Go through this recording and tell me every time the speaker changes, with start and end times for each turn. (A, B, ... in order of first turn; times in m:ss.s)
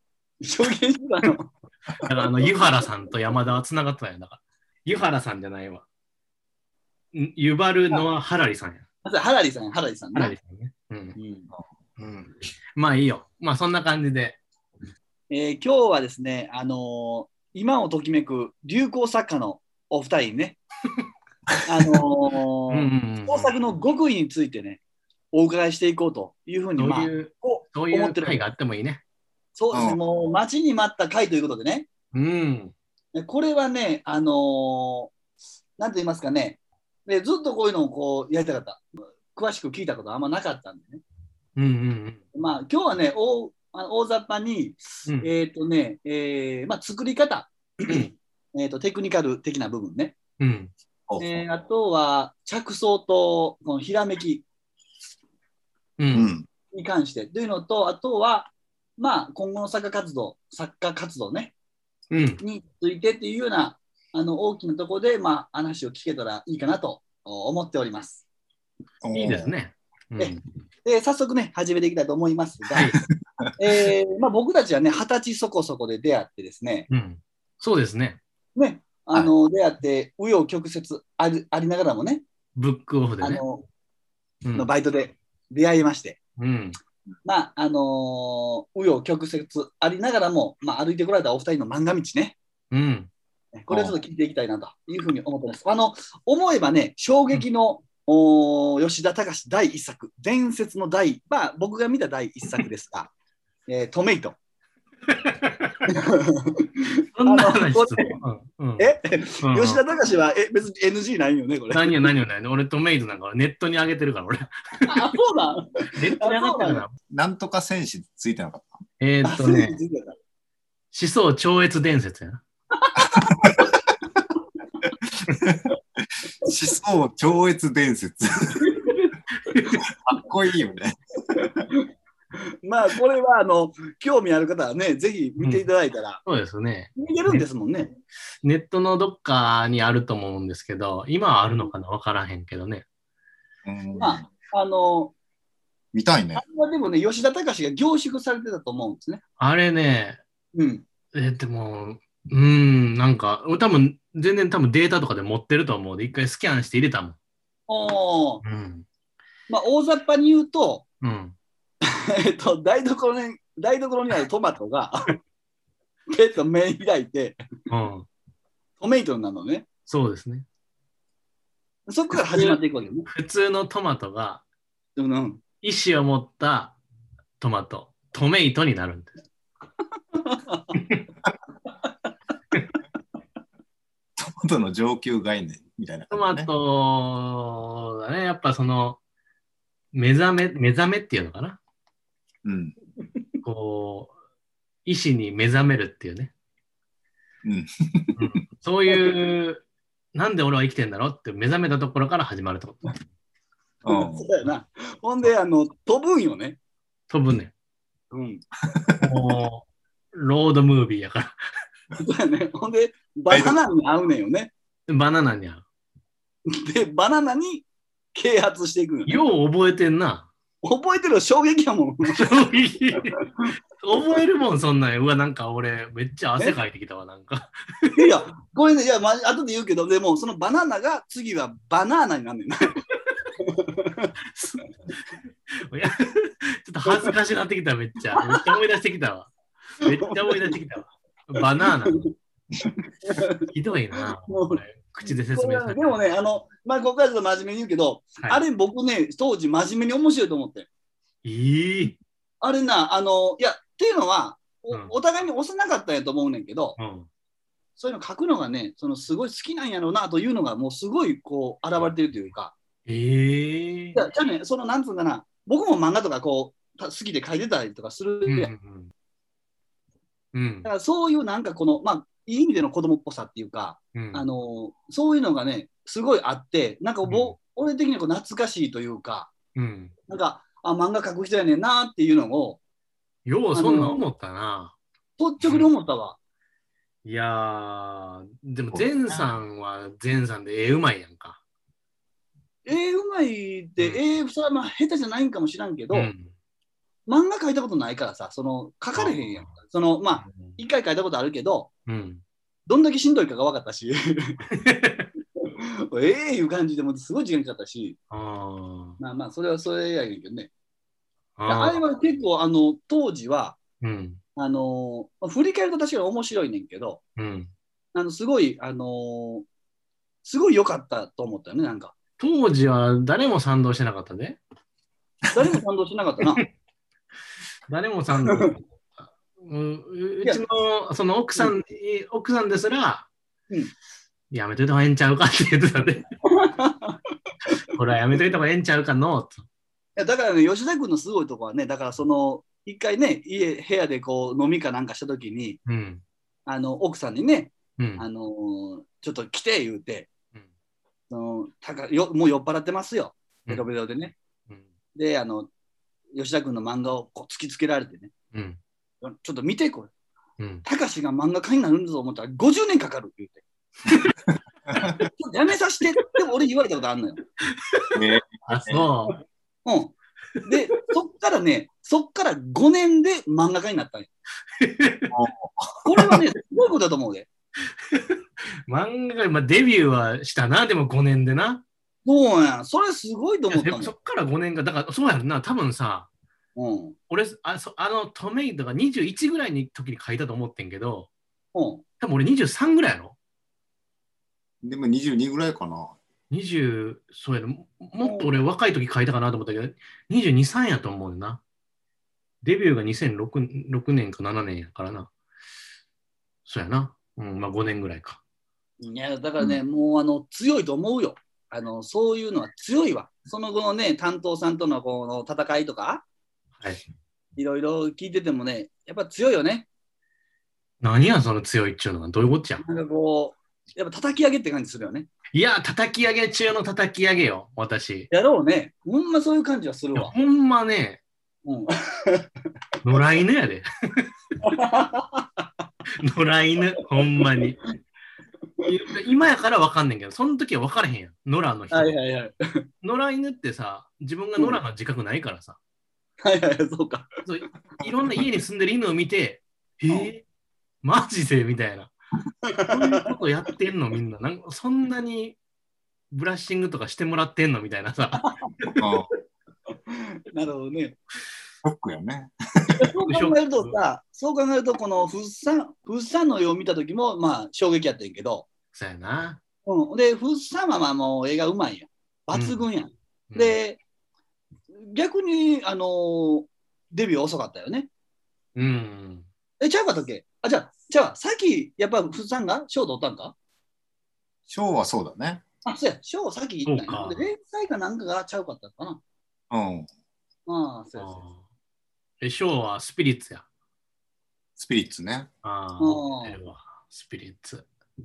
0:00.4-0:02.8 A
0:02.0-0:05.8 B
0:07.1-0:08.8 B
0:09.0-0:10.3 A
0:10.1-0:11.2 B
0:11.2-0:11.5 A
0:12.0-0:14.4 B
0:15.3-0:20.6 A
0:21.6-0:24.8 A
0:22.7-0:23.6 B
0:25.3-0:28.4 A
0:26.8-0:29.0 B
0:29.6-0:31.9 A
0:29.7-0:30.0 C
0:32.1-0:32.7 B
0:33.1-0:35.1 A
0:35.8-0:41.0 A
0:41.6-0:42.2 B
0:42.3-0:50.2 A
0:50.4-0:50.7 B
0:51.1-0:51.4 C
0:51.2-0:54.4 A
0:56.0-0:56.3 B
0:56.1-0:56.5 C
0:56.7-1:01.5 A
1:02.1-1:02.4 B
1:02.4-1:08.2 A
1:09.0-1:09.5 C
1:09.1-1:10.4 B
1:10.2-1:12.9 A
1:13.6-1:16.9 A
1:16.9-1:18.2 B
1:18.6-1:22.2 A
1:22.6-1:23.4 B
1:23.2-1:23.7 A
1:24.4-1:24.7 B
1:24.5-1:26.2 A
1:26.4-1:26.8 B
1:27.2-1:32.4 A
1:32.7-1:33.1 B
1:33.6-1:43.1 A
1:43.7-1:44.4 A
1:45.1-1:45.7 B
1:45.9-1:48.2 A
1:47.2-1:49.8 B
1:48.8-1:52.1 A
1:51.7-1:55.0 B
1:54.9-1:56.8 A
1:55.9-1:57.0 B
1:57.1-1:58.8 C
1:59.0-1:59.8 B
1:59.2-2:00.2 A
2:00.9-2:02.4 B
2:02.8-2:03.7 A
2:05.3-2:05.7 C
2:06.4-2:08.6 C
2:08.6-2:09.6 A
2:09.5-2:09.8 B
2:09.9-2:11.4 C
2:11.4-2:11.8 A
2:12.4-2:16.2 A
2:15.4-2:15.7 B
2:16.2-2:17.4 B
2:17.0-2:17.9 A
2:18.4-2:22.8 B
2:23.6-2:24.3 C
2:24.0-2:25.1 A
2:25.9-2:26.4 C
2:26.3-2:29.2 A
2:29.4-2:30.2 B
2:30.5-2:30.8 A
2:31.1-2:37.2 B
2:37.7-2:38.4 A
2:38.4-2:38.8 B
2:39.5-2:40.8 A
2:41.0-2:41.3 B
2:41.8-2:45.2 A
2:46.1-2:47.4 A
2:47.7-2:48.1 B
2:48.8-2:49.6 A
2:49.9-2:50.4 B
2:51.9-2:53.1 A
2:52.3-2:54.4 B
2:55.0-2:55.4 A
2:55.6-2:56.8 B
2:57.4-2:59.2 B
3:00.2-3:00.8 A
3:00.8-3:01.0 B
3:04.2-3:06.5 C
3:06.1-3:09.0 B
3:09.9-3:11.6 B
3:12.4-3:12.7 C
3:13.4-3:14.1 B
3:14.8-3:16.3 B
3:17.4-3:18.2 C
3:18.2-3:19.6 B
3:20.1-3:23.0 B
3:23.8-3:24.3 C
3:23.8-3:26.6 A
3:27.1-3:27.5 B
3:28.1-3:28.4 A
3:28.7-3:29.1 C
3:29.0-3:31.4 B
3:32.0-3:34.5 A
3:33.3-3:33.6 C
3:34.9-3:35.6 B
3:36.5-3:39.2 A
3:39.0-3:40.3 B
3:40.6-3:42.2 A
3:42.1-3:43.2 B
3:43.8-3:48.0 B
3:47.9-3:52.8 A
3:53.4-3:54.1 A
3:54.3-3:54.6 B
3:55.6-4:02.0 B
3:56.9-3:57.1 A
3:58.2-3:58.4 A
3:59.9-4:00.6 A
4:01.8-4:02.1 A
4:03.0-4:03.4 A
4:03.5-4:06.0 B
4:04.2-4:10.7 A
4:11.2-4:12.0 B
4:12.4-4:16.8 A
4:16.8-4:17.1 B
4:17.8-4:22.5 A
4:22.8-4:24.0 B
4:23.9-4:28.5 A
4:28.2-4:28.9 B
4:30.3-4:30.7 B
4:30.6-4:39.3 A
4:33.9-4:34.2 B
4:37.0-4:37.3 B
4:39.5-4:39.9 B
4:40.1-4:42.6 A
4:43.2-4:44.8 B
4:43.5-4:44.0 A
4:45.2-4:46.2 A
4:45.4-4:45.7 B
4:47.0-4:51.4 B
4:48.7-4:49.2 C
4:52.6-4:56.1 A
4:55.9-4:56.3 B
4:57.1-5:01.7 A
4:59.0-4:59.5 B
5:00.2-5:00.6 B
5:01.9-5:02.2 B
5:02.7-5:04.4 A
5:04.5-5:05.1 B
5:05.4-5:08.0 A
5:08.1-5:09.0 B
5:09.0-5:10.5 A
5:11.4-5:11.8 B
5:11.5-5:13.6 A
5:13.8-5:14.2 B
5:14.4-5:17.0 A
5:17.2-5:17.5 B
5:17.9-5:19.4 A
5:20.2-5:21.9 A
5:22.2-5:24.4 B
5:25.3-5:26.4 A
5:27.7-5:28.6 B
5:28.2-5:28.5 A
5:29.4-5:33.1 B
5:34.3-5:36.0 B
5:36.2-5:37.0 A
5:37.6-5:39.4 B
5:40.0-5:45.6 A
5:45.6-5:46.0 B
5:46.4-5:50.1 A
5:47.8-5:48.0 B
5:51.1-5:54.1 A
5:54.9-5:55.5 A
5:56.2-5:58.1 A
5:58.3-5:58.6 B
5:59.0-5:59.9 A
6:00.4-6:00.6 B
6:00.6-6:03.4 A
6:04.3-6:05.0 C
6:05.1-6:07.2 A
6:07.6-6:09.2 B
6:07.9-6:08.9 C
6:09.6-6:09.9 A
6:10.4-6:14.1 A
6:14.6-6:15.1 B
6:15.1-6:15.8 C
6:15.8-6:17.3 A
6:17.9-6:21.6 B
6:22.0-6:23.9 A
6:23.5-6:26.1 B
6:26.6-6:27.0 A
6:27.1-6:31.1 B
6:31.5-6:31.8 A
6:32.0-6:33.2 B
6:34.6-6:36.0 C
6:36.3-6:41.4 B
6:38.0-6:38.3 A
6:42.4-6:45.1 B
6:46.4-6:48.2 B
6:48.8-6:56.0 A
6:57.4-6:59.7 A
7:00.8-7:02.6 B
7:02.6-7:05.1 A
7:05.3-7:08.1 B
7:08.1-7:10.1 A
7:10.0-7:11.0 B
7:11.4-7:12.3 A
7:12.8-7:14.0 B
7:14.4-7:15.4 A
7:16.0-7:17.6 B
7:18.6-7:22.0 B
7:21.7-7:22.6 A
7:22.8-7:25.6 B
7:26.2-7:27.1 A
7:27.2-7:30.2 B
7:30.8-7:31.9 B
7:32.4-7:33.1 A
7:32.7-7:35.4 B
7:36.1-7:38.7 B
7:38.2-7:38.5 A
7:38.8-7:39.1 C
7:39.7-7:41.0 A
7:41.6-7:42.7 C
7:42.7-7:48.5 A
7:43.1-7:43.8 B
7:48.7-7:49.4 B
7:49.6-7:53.8 A
7:52.3-7:52.6 B
7:53.3-7:53.6 B
7:54.7-7:57.9 A
7:58.6-7:59.3 B
7:59.6-8:03.3 A
8:04.5-8:05.4 C
8:05.6-8:09.0 A
8:06.6-8:07.2 B
8:09.5-8:09.9 C
8:10.5-8:11.2 A
8:11.0-8:11.4 B
8:12.2-8:13.4 B
8:14.6-8:15.3 C
8:15.4-8:17.7 B
8:15.8-8:16.4 A